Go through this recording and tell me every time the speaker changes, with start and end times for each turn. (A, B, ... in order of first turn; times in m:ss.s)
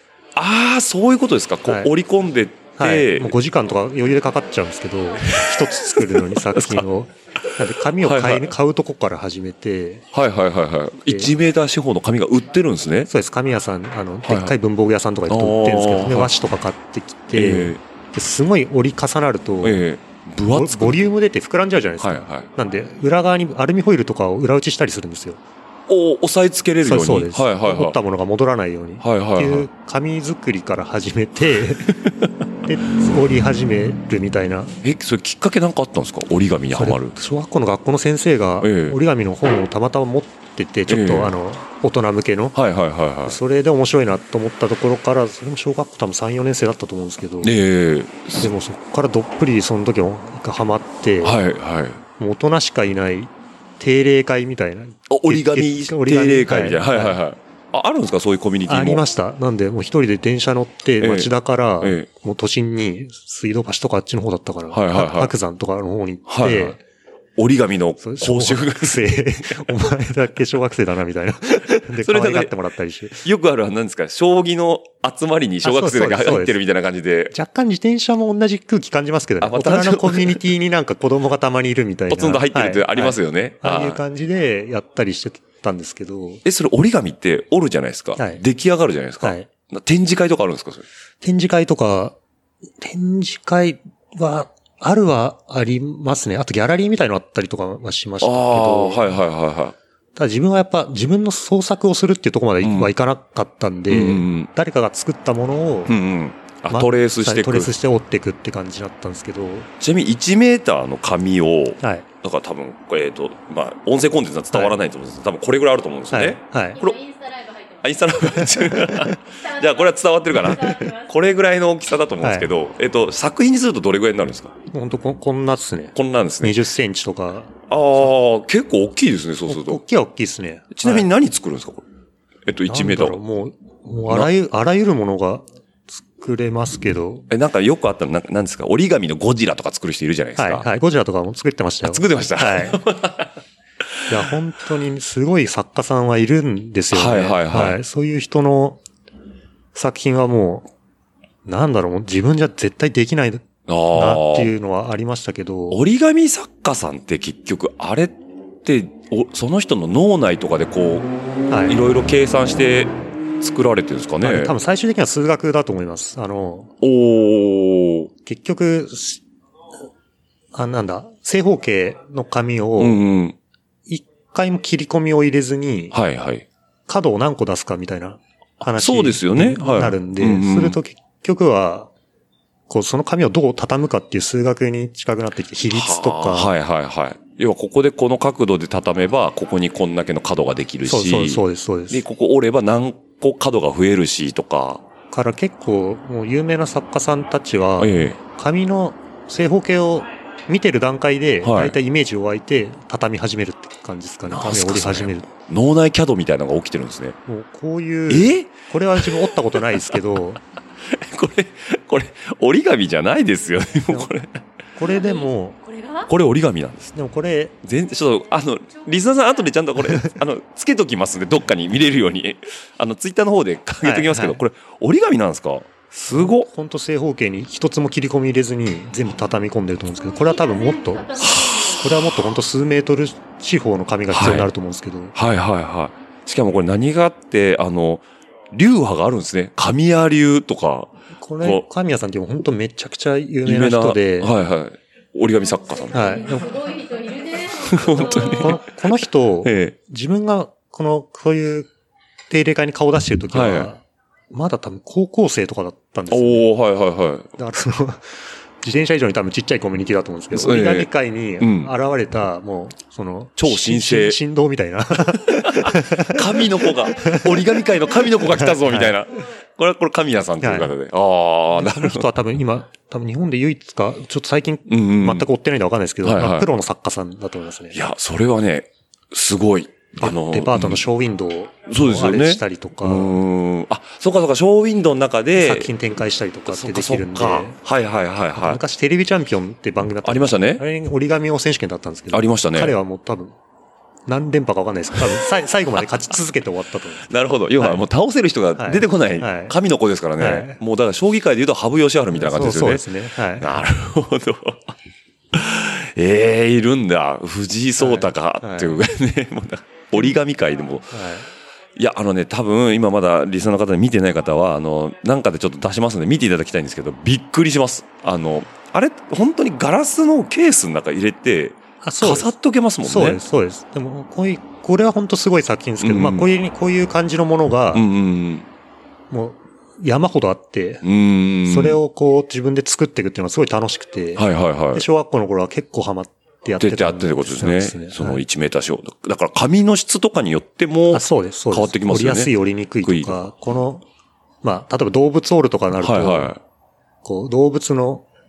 0:00.4-0:03.4 A
0:02.8-0:10.1 B
0:05.3-0:06.8 A
0:08.0-0:08.5 A
0:10.1-0:13.1 A
0:11.1-0:11.3 B
0:13.1-0:19.8 B
0:14.3-0:14.6 A
0:15.3-0:16.3 A
0:17.3-0:17.8 A
0:19.6-0:21.0 A
0:20.5-0:25.4 B
0:22.0-0:22.5 A
0:25.9-0:28.0 A
0:26.8-0:32.0 B
0:29.0-0:29.7 A
0:32.6-0:34.8 B
0:34.8-0:37.2 A
0:36.7-0:42.6 B
0:38.6-0:39.0 A
0:40.9-0:41.3 A
0:42.6-0:43.4 A
0:43.3-0:47.5 B
0:47.4-0:48.5 A
0:48.4-0:51.4 B
0:51.2-0:52.0 A
0:52.2-0:57.2 B
0:55.1-0:59.0 A
0:58.7-1:06.8 B
1:01.0-1:02.1 A
1:04.7-1:05.3 A
1:06.3-1:06.8 A
1:07.4-1:09.7 A
1:08.0-1:13.2 B
1:11.7-1:12.6 A
1:13.1-1:17.3 A
1:15.6-1:16.6 B
1:17.3-1:26.4 B
1:19.4-1:20.4 A
1:22.1-1:24.0 A
1:26.4-1:30.9 A
1:28.2-1:28.4 B
1:29.2-1:29.5 B
1:31.2-1:32.2 B
1:32.8-1:39.1 B
1:38.2-1:39.8 A
1:40.2-1:46.0 B
1:42.6-1:42.9 A
1:43.9-1:44.5 A
1:45.9-1:47.7 A
1:46.7-1:49.7 B
1:49.8-1:57.0 A
1:54.5-1:54.8 B
1:56.1-1:56.8 B
1:56.8-1:58.6 C
1:57.8-2:04.5 A
1:59.3-2:01.1 C
2:02.2-2:02.5 B
2:04.7-2:07.6 B
2:06.0-2:06.6 A
2:07.7-2:09.8 A
2:09.5-2:11.1 B
2:10.7-2:11.8 A
2:12.4-2:13.2 A
2:12.7-2:17.3 B
2:17.3-2:20.7 A
2:20.4-2:22.8 B
2:21.8-2:23.3 A
2:24.1-2:28.8 B
2:26.9-2:27.8 A
2:29.7-2:30.7 B
2:31.4-2:35.8 B
2:33.7-2:34.5 A
2:35.7-2:41.1 A
2:41.5-2:41.8 B
2:41.7-2:44.6 A
2:44.2-2:46.7 B
2:46.8-2:48.1 A
2:48.2-2:49.2 B
2:50.5-2:53.0 B
2:52.8-2:53.4 A
2:53.9-2:56.0 B
2:55.9-2:56.5 A
2:56.9-3:01.9 B
2:58.7-3:00.8 A
3:02.7-3:06.5 B
3:05.7-3:14.8 A
3:10.9-3:12.0 B
3:15.1-3:25.3 B
3:17.8-3:18.2 A
3:21.4-3:21.8 A
3:24.3-3:27.2 A
3:27.3-3:30.4 B
3:28.1-3:30.0 A
3:30.8-3:34.4 A
3:34.8-3:35.6 B
3:34.9-3:36.1 C
3:36.1-3:36.9 A
3:36.9-3:37.6 B
3:37.6-3:46.5 A
3:43.8-3:44.4 B
3:45.9-3:55.1 B
3:50.0-3:52.1 C
3:51.2-3:51.8 A
3:54.1-3:54.5 A
3:55.2-4:01.7 A
4:01.2-4:04.3 B
4:03.4-4:06.3 A
4:05.9-4:08.6 C
4:05.9-4:06.5 B
4:07.6-4:09.8 A
4:08.0-4:11.7 B
4:12.3-4:16.5 B
4:13.3-4:13.7 A
4:16.1-4:17.4 A
4:17.4-4:27.4 B
4:20.3-4:21.7 A
4:23.4-4:24.2 A
4:25.1-4:32.1 A
4:28.2-4:29.0 B
4:30.4-4:30.7 B
4:31.5-4:37.8 B
4:34.7-4:35.3 A
4:36.0-4:36.5 A
4:37.7-4:40.8 A
4:40.0-4:43.2 B
4:41.7-4:45.7 A
4:45.4-4:47.6 B
4:46.5-4:48.6 A
4:48.4-4:53.4 B
4:50.0-4:50.6 A
4:52.1-4:52.8 A
4:54.1-4:57.1 B
4:57.1-5:04.8 A
4:57.6-4:57.8 B
4:58.6-4:59.6 B
5:00.2-5:00.6 B
5:02.1-5:03.5 B
5:05.3-5:11.0 A
5:07.8-5:08.8 B
5:10.9-5:11.3 B
5:11.8-5:23.2 A
5:21.8-5:22.3 B
5:22.8-5:27.9 B
5:25.8-5:26.3 A
5:27.7-5:28.5 A
5:29.1-5:30.8 B
5:30.8-5:31.8 A
5:31.4-5:38.2 B
5:34.2-5:34.9 A
5:36.6-5:43.3 A
5:40.9-5:43.8 B
5:44.4-5:46.3 B
5:45.8-5:46.4 A
5:47.0-5:48.1 B